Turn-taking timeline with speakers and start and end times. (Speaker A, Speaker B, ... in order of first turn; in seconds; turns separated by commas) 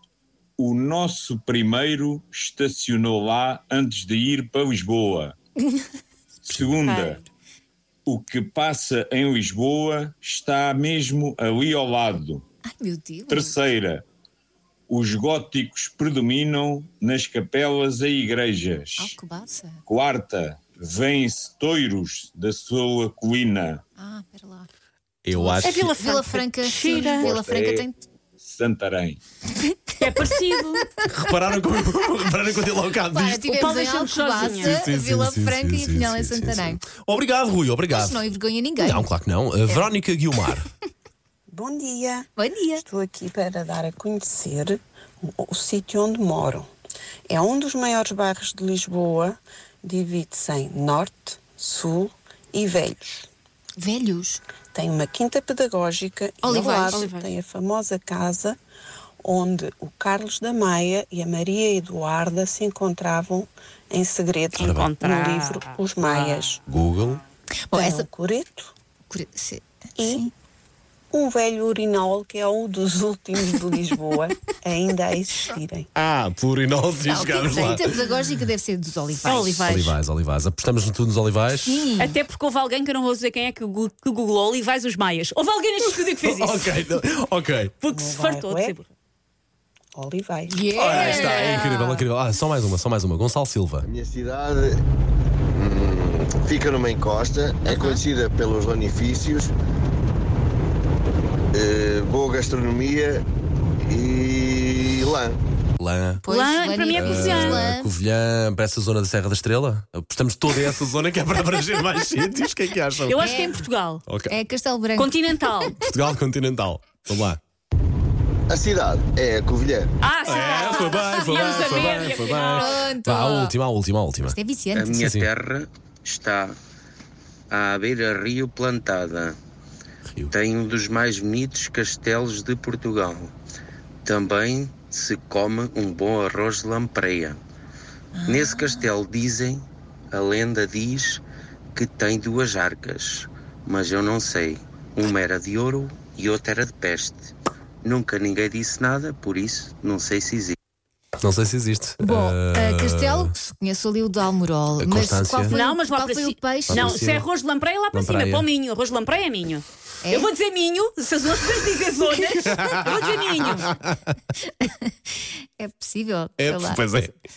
Speaker A: 0.6-5.4, Speaker A: 6.4-7.2, Speaker B: 6.5-6.7, Speaker C: 6.8-7.2, Speaker A: 8.1-12.4, Speaker D: 12.7-13.6, Speaker A: 13.3-14.1, Speaker A: 14.9-19.2, Speaker D: 19.0-19.8, Speaker A: 19.8-23.8, Speaker D: 24.0-24.7, Speaker B: 25.2-25.9, Speaker D: 25.3-28.0, Speaker C: 25.6-27.3, Speaker A: 27.0-27.9, Speaker A: 28.4-29.2, Speaker C: 30.0-30.9, Speaker B: 31.0-33.7, Speaker D: 33.1-36.8, Speaker C: 33.5-34.8, Speaker B: 34.5-38.2, Speaker D: 37.9-39.1, Speaker B: 38.8-40.6, Speaker E: 41.5-46.7, Speaker D: 42.4-42.8, Speaker E: 47.3-53.3, Speaker D: 53.8-54.4, Speaker E: 54.7-58.6, Speaker D: 56.4-57.0, Speaker C: 56.9-57.3, Speaker E: 59.2-66.6, Speaker B: 64.6-64.9, Speaker C: 64.6-66.3, Speaker B: 66.7-67.2, Speaker D: 67.7-68.0, Speaker E: 67.7-68.7, Speaker D: 69.1-70.3, Speaker E: 70.0-70.3, Speaker E: 71.1-75.9, Speaker B: 76.0-78.0, Speaker D: 77.0-79.6, Speaker C: 79.2-80.0, Speaker B: 79.6-81.9, Speaker D: 81.7-82.2, Speaker C: 82.0-86.7, Speaker B: 85.9-87.7, Speaker C: 87.8-88.9, Speaker E: 87.9-88.8, Speaker E: 90.0-91.2, Speaker D: 90.5-91.7, Speaker B: 90.8-93.8, Speaker C: 90.9-92.0, Speaker F: 93.8-94.8, Speaker F: 95.5-99.5, Speaker D: 97.7-98.0, Speaker F: 101.5-103.2, Speaker F: 103.9-105.3, Speaker B: 105.8-106.2, Speaker D: 106.2-107.9, Speaker C: 106.3-107.6, Speaker B: 106.9-113.5, Speaker C: 113.1-114.0, Speaker D: 113.2-113.6, Speaker B: 114.0-114.3, Speaker D: 114.3-115.8, Speaker C: 115.0-115.7, Speaker B: 115.8-117.4, Speaker F: 118.5-119.8, Speaker C: 120.0-122.7, Speaker B: 120.2-124.3, Speaker D: 122.1-123.5, Speaker D: 124.2-125.0, Speaker G: 124.7-126.5, Speaker B: 125.0-125.3, Speaker G: 127.5-129.4, Speaker B: 130.1-130.3, Speaker G: 130.3-133.3, Speaker G: 134.0-137.4, Speaker D: 138.1-138.9, Speaker G: 138.2-141.2, Speaker G: 141.7-147.3, Speaker G: 147.8-150.6, Speaker B: 151.2-153.3, Speaker D: 152.0-157.1, Speaker B: 154.8-155.6, Speaker C: 155.5-163.7, Speaker B: 156.7-157.2, Speaker B: 157.9-158.4, Speaker D: 160.0-160.3, Speaker B: 162.6-162.8, Speaker B: 163.7-164.1, Speaker D: 164.5-164.9, Speaker D: 165.6-166.8, Speaker B: 166.4-167.1